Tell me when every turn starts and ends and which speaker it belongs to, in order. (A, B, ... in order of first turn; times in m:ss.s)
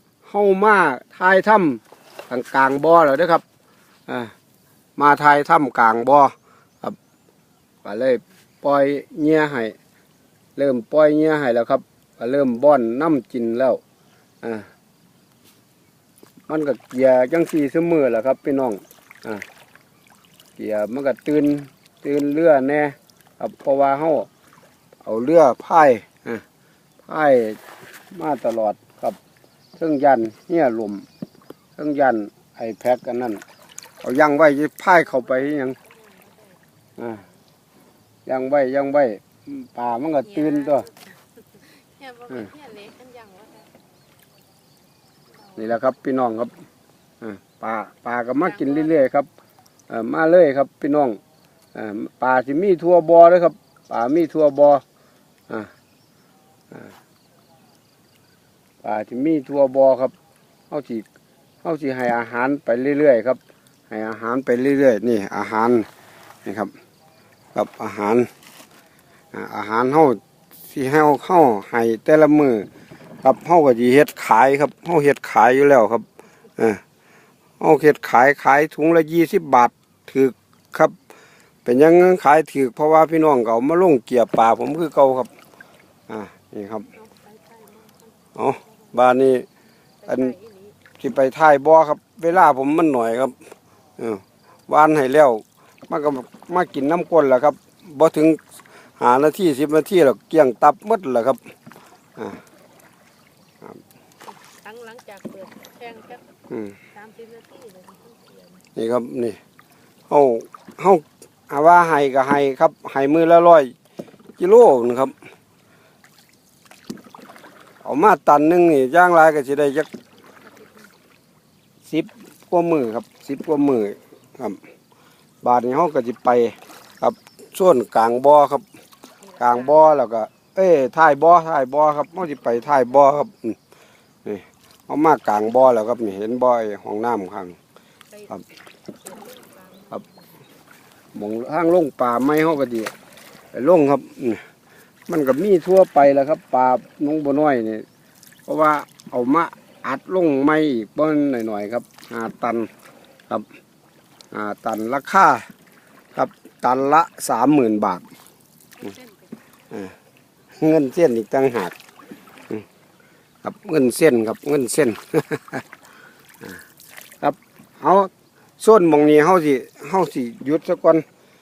0:00.2-0:03.4 A
0:04.1-0:04.3 A
0:05.0-0:07.0 A
0:07.8-0:09.8 A
0:10.6-0:13.8 A
0:14.4-0:14.7 A
0:16.5-0:19.4 A
0:20.6-0:24.3 A
0:25.0-0:26.4 A
0:27.0-0:29.2 A
0:29.8-0:31.0 A
0:31.8-0:33.4 A
0:34.0-0:35.8 A
0:35.2-0:36.6 B
0:37.0-0:37.2 A
0:38.3-0:40.9 A
0:40.2-0:43.7 B
0:45.6-0:46.5 A
0:47.2-0:49.3 A
0:48.4-0:48.9 B
0:49.9-0:51.2 A
0:51.7-0:54.8 A
0:58.8-1:00.1 A
1:00.7-1:01.0 A
1:01.6-1:05.9 A
1:06.4-1:06.7 A
1:07.5-1:08.3 A
1:09.3-1:10.2 A
1:10.7-1:12.7 A
1:13.2-1:16.8 A
1:17.6-1:21.0 A
1:21.6-1:25.3 A
1:26.1-1:26.9 A
1:26.9-1:28.9 B
1:28.4-1:29.4 A
1:30.0-1:30.8 B
1:30.1-1:30.3 A
1:31.0-1:33.3 A
1:34.0-1:38.4 A
1:39.0-1:41.4 A
1:44.3-1:46.3 B
1:46.5-1:46.8 A
1:46.9-1:48.6 B
1:48.8-1:49.4 A
1:50.1-1:53.7 A
1:54.4-1:55.1 A
1:57.8-1:59.9 A
2:00.4-2:00.9 B
2:01.9-2:04.6 A
2:05.4-2:08.6 A
2:09.2-2:09.9 B
2:09.4-2:13.6 A
2:14.2-2:17.6 A
2:18.1-2:20.4 B
2:21.1-2:22.9 A
2:23.5-2:24.4 A
2:25.1-2:27.8 A
2:28.5-2:32.7 A
2:34.3-2:35.4 A
2:36.1-2:38.0 A
2:38.8-2:39.4 B
2:40.6-2:41.7 A
2:43.4-2:45.6 A
2:47.2-2:51.0 A